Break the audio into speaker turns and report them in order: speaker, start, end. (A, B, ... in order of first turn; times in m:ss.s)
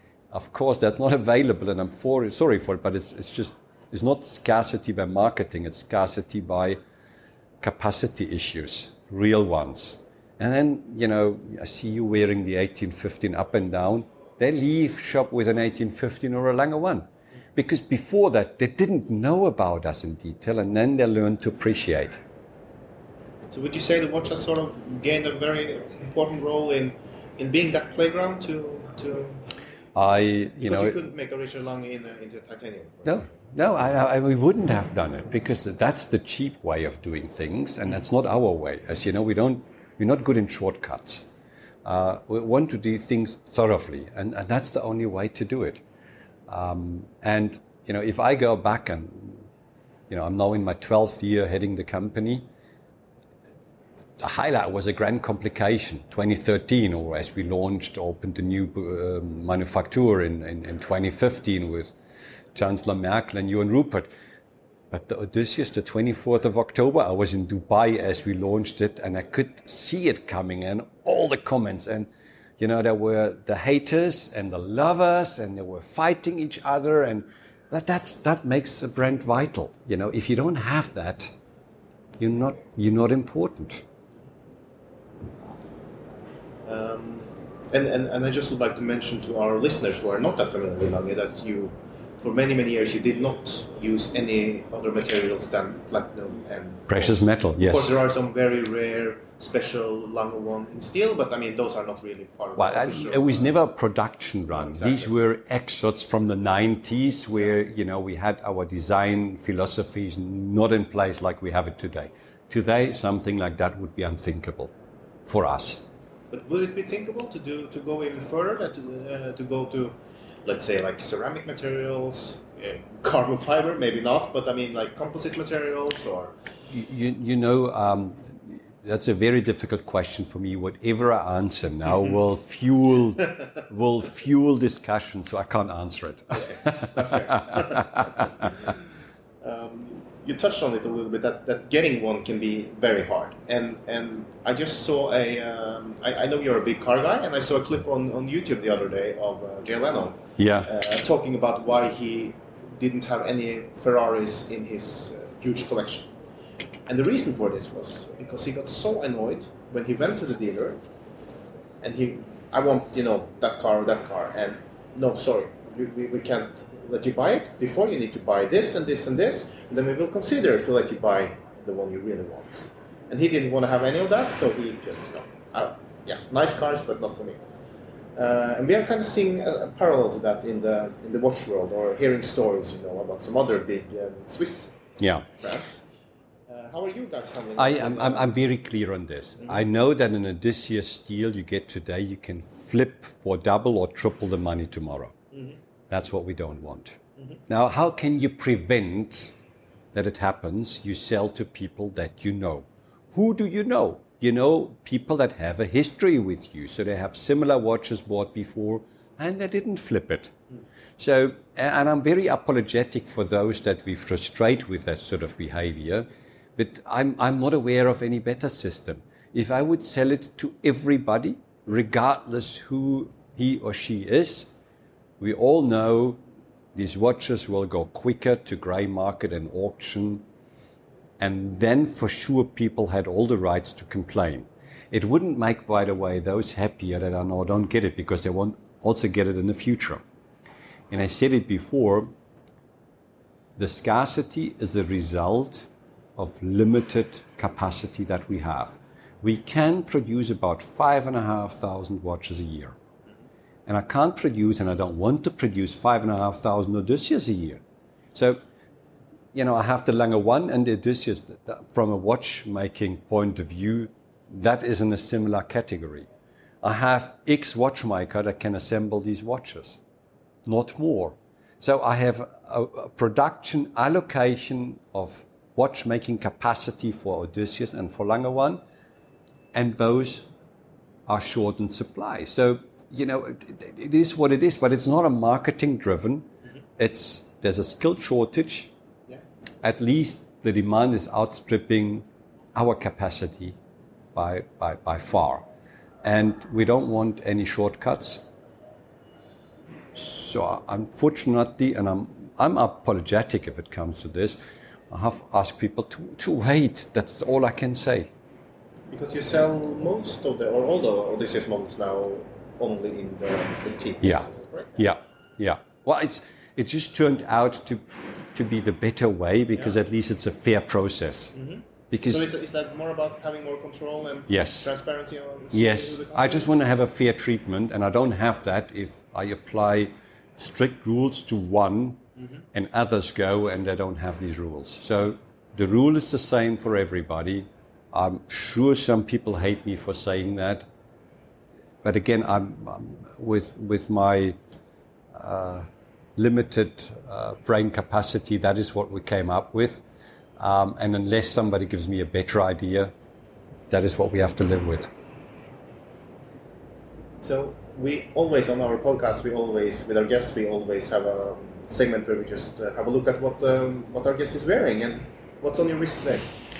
0:00.3-0:06.8 A
0:07.6-0:22.2 A
0:23.5-0:29.4 B
0:30.0-0:31.0 A
0:30.6-0:33.4 B
0:33.0-0:41.3 A
0:41.8-0:45.8 A
0:46.5-0:49.5 A
0:50.1-0:52.5 A
0:54.2-1:01.9 A
1:02.6-1:04.1 A
1:04.9-1:21.3 A
1:22.2-1:23.8 A
1:26.6-1:43.6 B
1:36.9-1:37.9 A
1:42.6-1:54.7 A
1:44.5-1:45.1 B
1:55.3-1:55.9 A
1:56.3-2:06.4 B
2:06.7-2:18.1 A
2:16.3-2:18.8 B
2:19.4-2:36.1 B
2:30.4-2:30.7 A
2:36.9-2:40.8 B
2:41.8-2:57.4 B
2:58.2-3:04.8 B
3:05.0-3:05.3 A
3:05.3-3:05.9 B
3:06.5-3:08.4 B
3:07.6-3:15.1 A
3:09.4-3:09.7 B
3:15.3-3:15.6 B
3:15.9-3:19.3 A
3:19.9-3:30.3 A
3:31.0-3:44.5 A
3:45.2-3:46.2 A
3:46.8-3:50.3 A
3:51.2-4:00.0 A
4:00.9-4:02.1 A
4:03.6-4:12.8 A
4:13.7-4:17.6 A
4:18.2-4:18.4 A
4:19.3-4:26.1 A
4:26.6-4:29.8 A
4:30.5-4:38.6 A
4:39.5-4:40.3 A
4:41.1-4:48.7 A
4:49.6-4:53.6 A
4:54.2-4:55.5 A
4:56.0-4:58.2 A
4:59.9-5:04.4 A
5:04.9-5:08.1 A
5:08.9-5:14.8 B
5:14.0-5:17.8 A
5:18.3-5:21.4 A
5:19.5-5:19.8 B
5:21.3-5:26.6 B
5:21.9-5:22.3 A
5:24.3-5:24.7 A
5:25.5-5:40.7 A
5:32.2-5:32.4 B
5:41.8-5:44.4 A
5:45.1-5:49.8 A
5:50.4-5:52.9 A
5:53.7-5:54.9 A
5:57.2-6:06.3 B